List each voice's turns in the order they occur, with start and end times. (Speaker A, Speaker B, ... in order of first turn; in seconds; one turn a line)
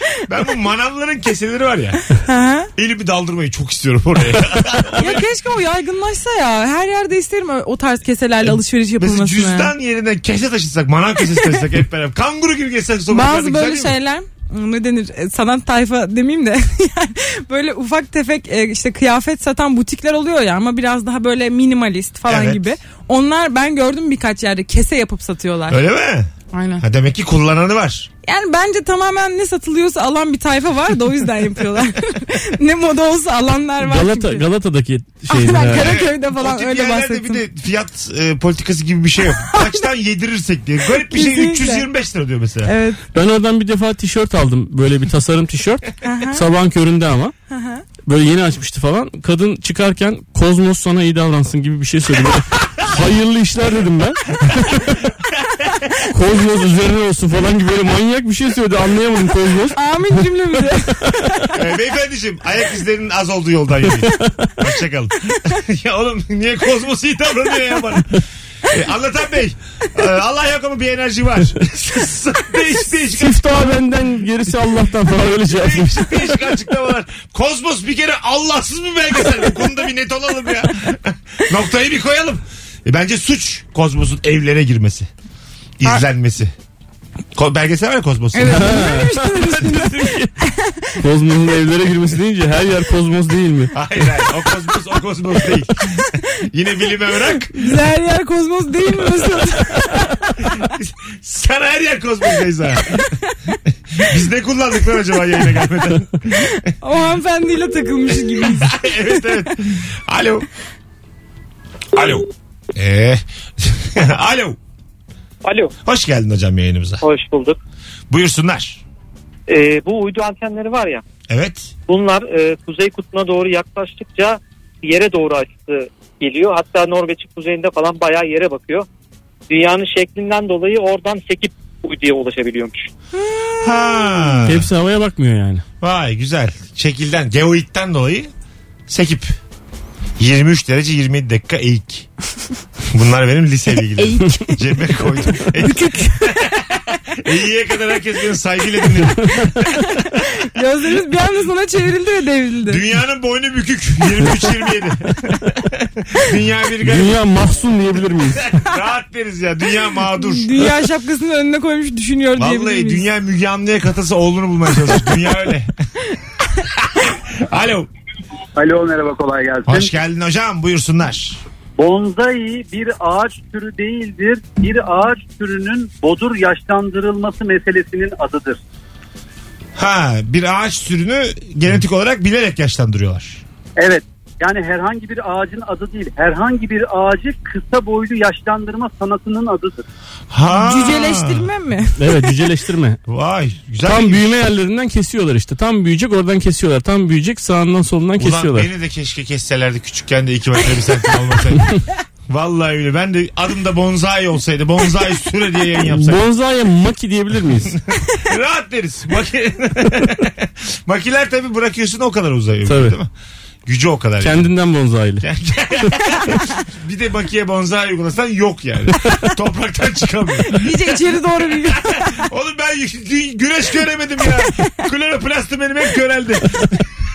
Speaker A: 0.3-2.0
Speaker B: 2.1-2.7
Speaker A: 2.8-5.2
Speaker B: 4.9-9.7
Speaker A: 9.0-13.9
Speaker B: 13.1-25.8
Speaker A: 22.3-22.6
Speaker A: 25.7-26.3
Speaker B: 26.5-26.8
Speaker A: 26.8-28.1
Speaker B: 28.2-34.4
Speaker C: 33.8-35.9
Speaker B: 35.3-37.4
Speaker A: 35.7-42.7
Speaker B: 39.3-39.9
Speaker B: 40.9-41.9
Speaker B: 42.6-43.0
Speaker C: 43.1-47.3
Speaker B: 46.0-46.4
Speaker B: 47.5-47.8
Speaker C: 48.1-55.0
Speaker C: 56.1-59.8
Speaker B: 59.7-61.5
Speaker A: 61.5-73.7
Speaker C: 64.2-64.5
Speaker C: 73.1-76.2
Speaker A: 75.5-85.1
Speaker A: 85.8-86.5
Speaker A: 87.3-88.7
Speaker B: 88.3-90.9
Speaker C: 88.5-90.3
Speaker C: 91.0-93.7
Speaker A: 93.7-97.7
Speaker B: 97.5-100.7
Speaker A: 100.5-103.1
Speaker B: 102.9-103.5
Speaker A: 104.0-106.5
Speaker B: 106.4-108.8
Speaker A: 108.1-110.5
Speaker A: 111.9-114.6
Speaker D: 115.4-115.7
Speaker A: 115.8-117.0
Speaker D: 117.0-117.6
Speaker A: 118.1-118.8
Speaker D: 119.5-121.0
Speaker A: 121.3-121.7
Speaker D: 121.9-128.8
Speaker D: 129.5-132.9
Speaker B: 133.3-134.0
Speaker A: 133.6-134.7
Speaker C: 134.4-135.6
Speaker A: 135.8-138.3
Speaker A: 138.9-139.3
Speaker A: 140.2-142.1
Speaker A: 142.9-150.0
Speaker B: 144.0-146.6
Speaker B: 149.7-152.8
Speaker A: 152.7-157.2
Speaker C: 156.8-158.5
Speaker A: 158.4-160.6
Speaker B: 160.1-163.0
Speaker A: 162.3-165.7
Speaker A: 166.8-167.9
Speaker E: 168.6-169.9
Speaker A: 169.6-171.4
Speaker E: 171.8-178.6
Speaker A: 179.8-183.4
Speaker E: 183.8-189.8
Speaker A: 190.3-191.5
Speaker B: 190.5-192.0
Speaker C: 192.0-193.0
Speaker A: 193.1-194.4
Speaker C: 193.8-198.7
Speaker A: 198.2-206.2
Speaker C: 205.8-207.8
Speaker A: 208.2-213.1
Speaker C: 212.7-213.0
Speaker A: 213.7-214.5
Speaker C: 214.2-215.2
Speaker A: 215.2-226.8
Speaker B: 220.4-222.3